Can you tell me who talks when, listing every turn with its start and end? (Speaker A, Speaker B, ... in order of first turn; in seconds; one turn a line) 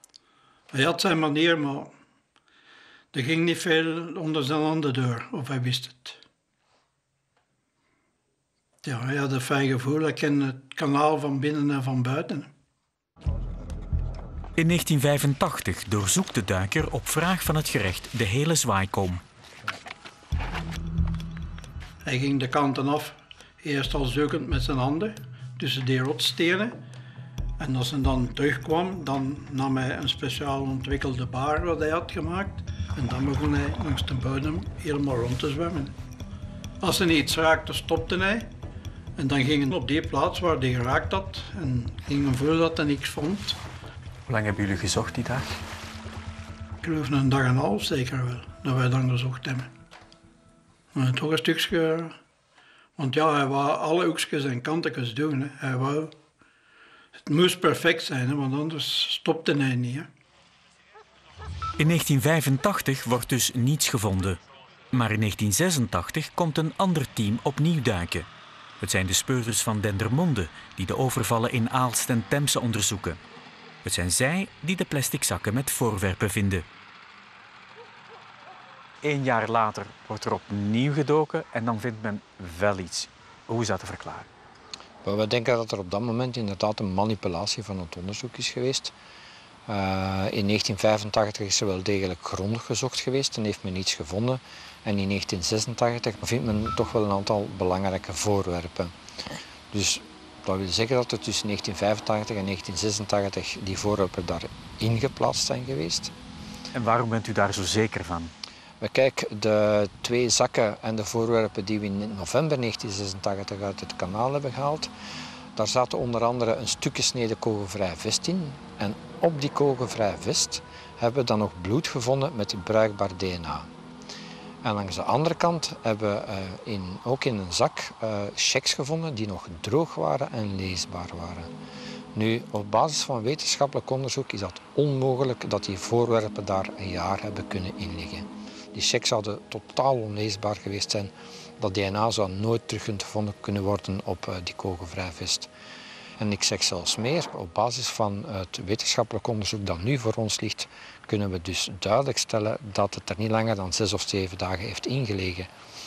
Speaker A: 0.7-1.9
Speaker A: 3.1-6.2
Speaker A: 8.8-12.5
Speaker B: 14.6-19.2
Speaker A: 22.0-26.8
Speaker A: 27.6-35.9
Speaker A: 36.8-38.5
Speaker A: 39.2-43.6
Speaker B: 44.3-45.6
Speaker A: 46.8-49.7
Speaker A: 50.9-52.1
Speaker A: 53.0-56.1
Speaker A: 57.3-60.1
Speaker B: 61.8-64.4
Speaker B: 64.9-68.3
Speaker B: 68.8-73.2
Speaker B: 73.8-76.6
Speaker B: 79.0-84.3
Speaker C: 85.0-88.9
Speaker C: 89.7-98.9
Speaker C: 99.7-106.1
Speaker B: 106.7-108.3
Speaker C: 108.8-114.9
Speaker C: 115.5-123.7
Speaker C: 124.6-131.5
Speaker C: 132.1-145.5
Speaker C: 146.2-155.5